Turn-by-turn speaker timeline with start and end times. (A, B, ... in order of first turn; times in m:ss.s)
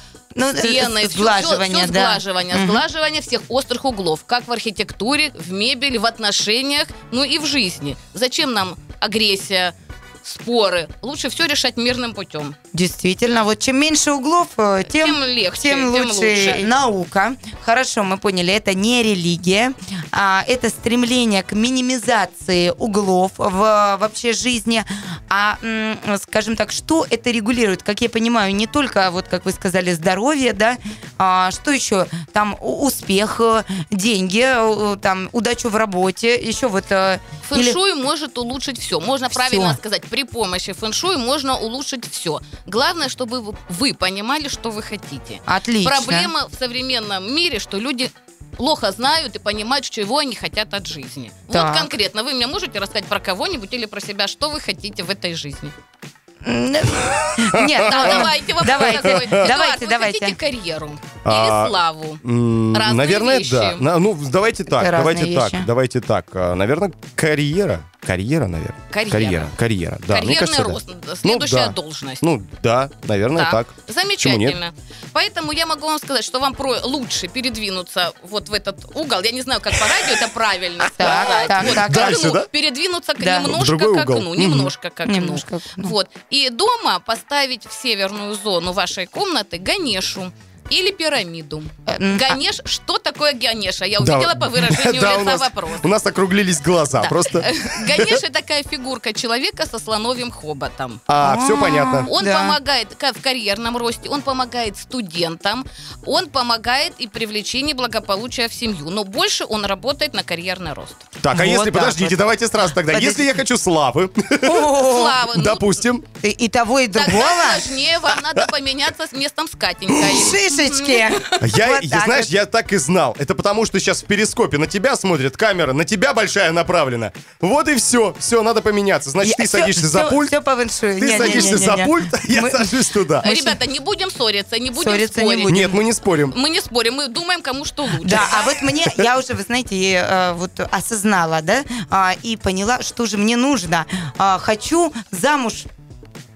0:00.3-0:02.8 A
0:00.5-0:12.5 B
0:12.7-0:37.8 A
0:14.9-0:16.7 B
0:37.4-0:55.7 B
0:39.3-0:39.8 A
0:45.5-0:46.3 A
0:51.5-0:51.9 A
0:56.4-1:00.4 A
0:57.1-0:59.4 C
0:57.8-1:02.2 B
1:01.2-1:14.6 C
1:02.7-1:03.8 B
1:04.8-1:05.7 A
1:08.9-1:09.5 B
1:10.1-1:12.2 B
1:13.3-1:35.8 B
1:20.9-1:22.2 A
1:21.0-1:22.5 C
1:23.2-1:23.5 A
1:23.4-1:24.7 C
1:25.0-1:25.9 A
1:31.9-1:32.4 A
1:34.0-1:38.2 C
1:37.0-1:41.0 B
1:41.1-1:42.1 C
1:41.2-1:42.6 A
1:42.0-1:51.0 B
1:51.2-1:56.0 C
1:51.3-1:52.2 A
1:52.9-1:53.2 A
1:54.4-1:55.2 A
1:54.8-1:55.6 B
1:56.2-1:57.6 A
1:56.9-2:01.3 B
1:57.1-1:58.5 C
1:59.9-2:02.3 A
2:01.4-2:10.4 C
2:09.2-2:13.6 A
2:11.0-2:13.3 C
2:11.2-2:11.6 B
2:13.2-2:15.7 B
2:14.7-2:15.8 A
2:15.5-2:16.3 C
2:16.3-2:18.4 B
2:18.0-2:25.7 A